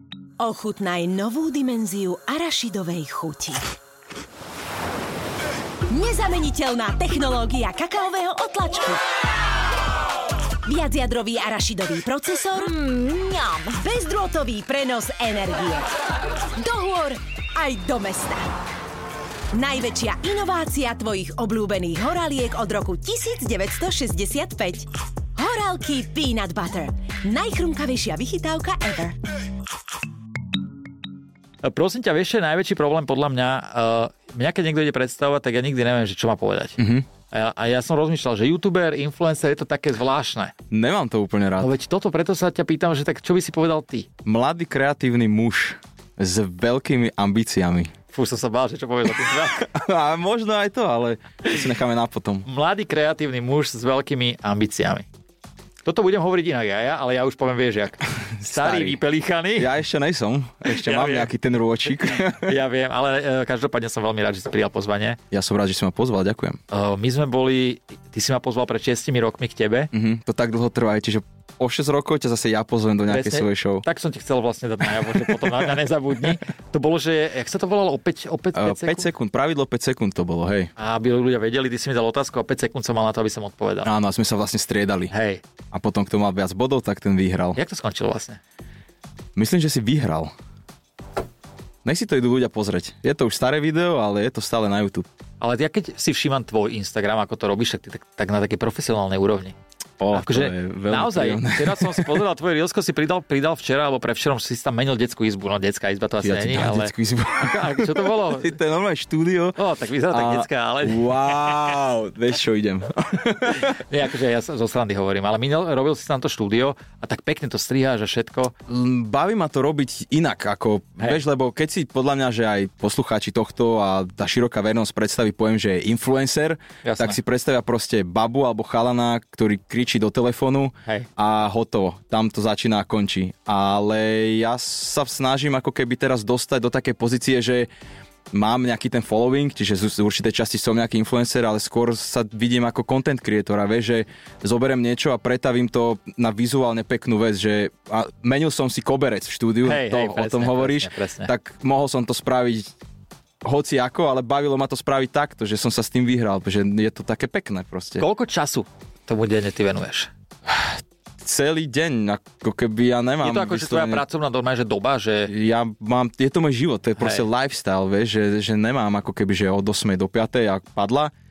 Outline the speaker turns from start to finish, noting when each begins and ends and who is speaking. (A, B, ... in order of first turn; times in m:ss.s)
0:00.4-0:03.6 A
0:05.9-0:09.0 A
0:10.7-0:16.0 A
0:16.6-0:18.4 A
0:19.5-0:29.2 A
0:31.6-0:40.5 B
0:36.8-0:37.1 C
0:40.7-0:41.7 C
0:41.6-0:44.1 B
0:44.2-0:47.9 C
0:48.1-0:49.7 B
0:49.6-0:52.5 C
0:52.5-0:55.1 B
0:55.8-0:59.7 B
0:58.2-0:59.0 C
0:59.6-1:02.6 C
1:00.7-1:01.3 B
1:01.8-1:05.2 B
1:05.3-1:06.6 C
1:06.7-1:09.9 B
1:09.9-1:13.8 C
1:13.1-1:19.1 B
1:15.0-1:15.7 C
1:18.5-1:20.7 C
1:20.8-1:23.9 B
1:23.8-1:25.1 C
1:25.1-1:25.4 B
1:25.7-1:27.6 C
1:27.6-1:28.4 B
1:29.4-1:30.3 C
1:31.8-1:35.1 C
1:35.4-1:39.6 B
1:40.0-1:42.2 C
1:40.1-1:48.6 B
1:46.2-1:49.6 C
1:49.6-1:51.8 B
1:50.1-1:53.8 C
1:53.5-1:58.5 B
1:58.7-2:17.7 C
2:06.8-2:07.2 B
2:18.3-2:32.7 C
2:29.6-2:31.3 B
2:33.4-2:38.1 C
2:38.0-2:40.1 B
2:40.5-2:44.0 C
2:43.2-2:45.3 B
2:45.3-2:51.1 C
2:47.0-2:47.3 B